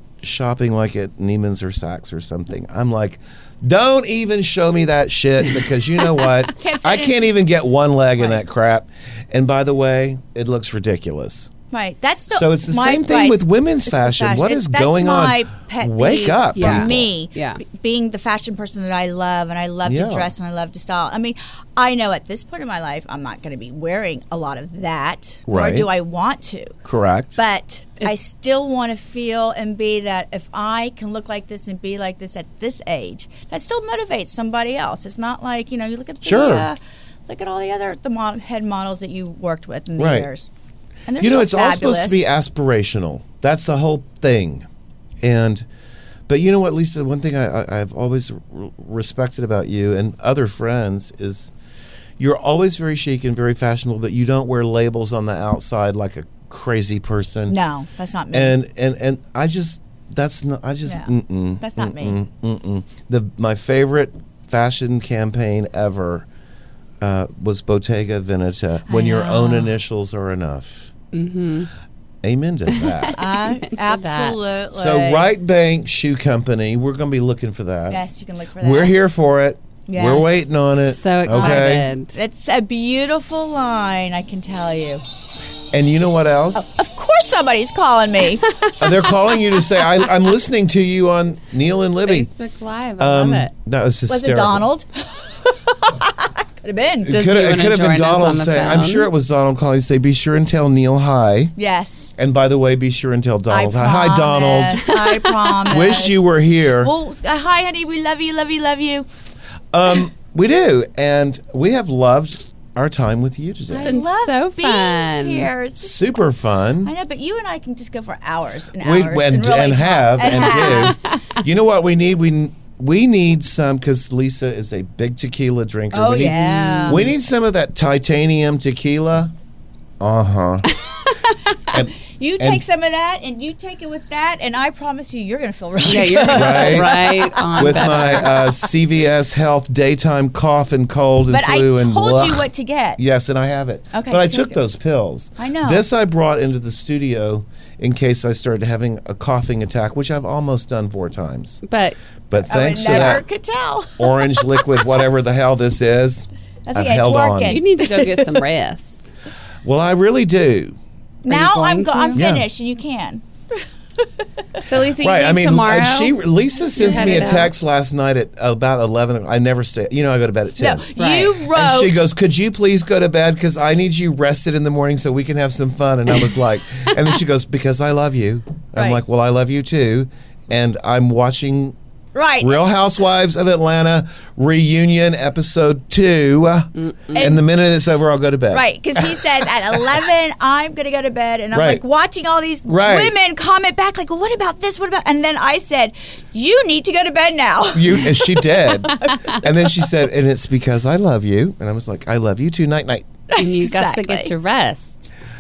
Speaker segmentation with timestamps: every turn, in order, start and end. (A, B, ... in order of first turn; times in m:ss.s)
0:00.2-0:11.5 A
0:06.6-0:07.3 B
0:08.2-0:08.4 B
0:11.7-0:26.7 B
0:12.3-0:17.1 A
0:16.6-0:17.6 C
0:19.8-0:20.3 A
0:25.5-0:25.9 A
0:26.8-0:27.4 A
0:27.4-0:40.5 B
0:36.2-0:36.7 A
0:40.0-0:40.3 A
0:41.1-0:42.3 B
0:41.2-0:44.6 A
0:45.2-0:45.6 A
0:46.3-0:51.5 A
0:52.2-0:57.6 A
0:57.5-0:58.6 B
0:58.3-1:06.2 A
1:00.8-1:02.2 B
1:07.0-1:10.9 A
1:08.9-1:09.8 B
1:11.1-1:11.7 C
1:12.2-1:13.2 A
1:12.7-1:14.6 C
1:13.1-1:15.3 B
1:14.7-1:18.0 A
1:17.9-1:19.0 B
1:18.6-1:21.9 A
1:19.9-1:20.5 B
1:20.8-1:22.2 C
1:21.3-1:25.0 B
1:25.7-1:26.7 A
1:26.6-1:28.5 B
1:28.8-1:32.3 A
1:32.0-1:33.5 C
1:33.0-1:34.7 A
1:34.1-1:37.1 B
1:37.0-1:41.5 A
1:37.1-1:39.1 C
1:41.6-1:42.1 B
1:42.2-1:44.9 A
1:43.5-1:46.2 B
1:45.7-1:46.9 A
1:46.8-1:49.1 B
1:49.7-1:54.0 A
1:53.7-1:56.2 B
1:53.8-1:55.5 C
1:55.8-1:56.9 A
1:56.8-2:01.2 B
1:58.8-2:09.3 A
2:00.4-2:01.0 C
2:05.9-2:07.1 B
2:06.3-2:07.1 C
2:10.0-2:10.7 A
2:11.6-2:12.6 A
2:11.7-2:18.5 B
2:15.8-2:18.4 C
2:16.3-2:16.9 A
2:17.5-2:22.4 A
2:21.3-2:23.0 B
2:23.0-2:31.6 A
2:23.9-2:24.6 B
2:25.4-2:25.8 B
2:31.6-2:32.0 C
2:32.3-2:33.2 A
2:32.4-2:35.0 B
2:32.8-2:33.2 C
2:34.0-2:37.6 A
2:36.7-2:38.4 B
2:37.4-2:38.9 C
2:39.6-2:40.8 A
2:41.2-2:43.2 B
2:41.3-2:42.3 C
2:42.1-2:42.5 A
2:44.6-2:46.2 C
2:45.0-2:50.8 A
2:46.7-2:47.5 C
2:46.7-2:47.5 B
2:50.6-2:52.1 B
2:51.0-2:51.4 C
2:51.4-3:01.8 A
2:58.8-2:59.0 B
3:02.1-3:02.6 B
3:02.4-3:09.4 A
3:06.7-3:07.4 C
3:07.1-3:07.4 B
3:08.5-3:19.7 B
3:11.5-3:11.8 A
3:12.6-3:13.1 A
3:17.7-3:23.1 A
3:23.3-3:24.3 B
3:23.4-3:24.9 C